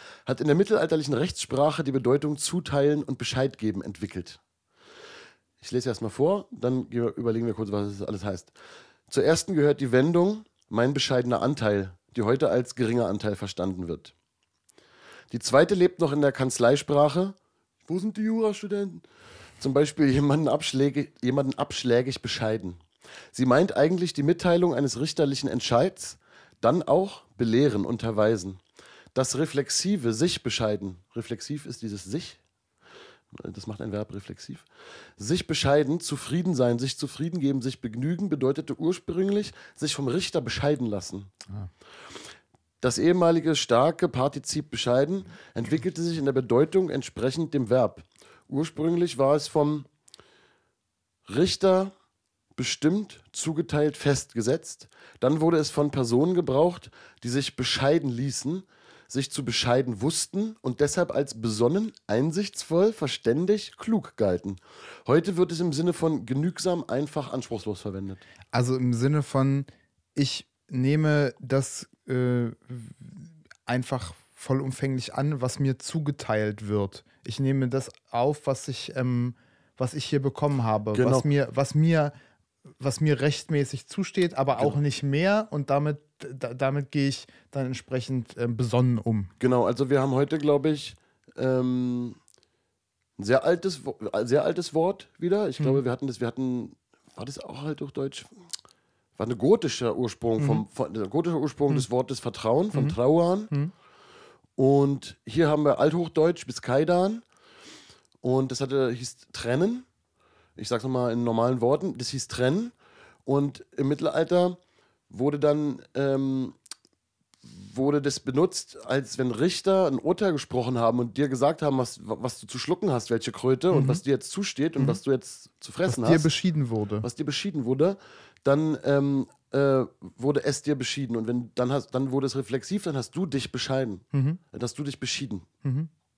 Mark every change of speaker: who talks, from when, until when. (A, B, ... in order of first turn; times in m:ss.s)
0:00.3-0:04.4 A
0:05.6-0:08.5 A
0:09.1-0:14.1 A
0:15.3-0:17.4 A
0:17.9-0:19.0 A
0:19.6-0:22.8 A
0:23.3-0:28.6 A
0:29.1-0:32.4 A
0:33.3-0:34.7 A
0:35.2-0:41.3 A
0:42.8-0:49.9 A
0:51.3-0:51.9 A
0:52.6-1:08.2 A
1:08.5-1:22.1 B
1:20.9-1:21.3 A
1:22.8-1:29.3 B
1:29.4-1:32.2 A
1:33.2-1:38.3 A
1:39.2-1:43.5 A
1:40.4-1:40.6 B
1:44.6-1:47.2 A
1:48.2-1:49.9 A
1:50.6-1:52.7 A
1:53.3-1:54.6 A
1:55.1-1:56.6 A
1:57.4-2:06.3 A
2:03.7-2:04.0 B
2:05.9-2:07.1 B
2:07.0-2:15.5 A
2:14.1-2:14.4 B
2:15.6-2:15.9 B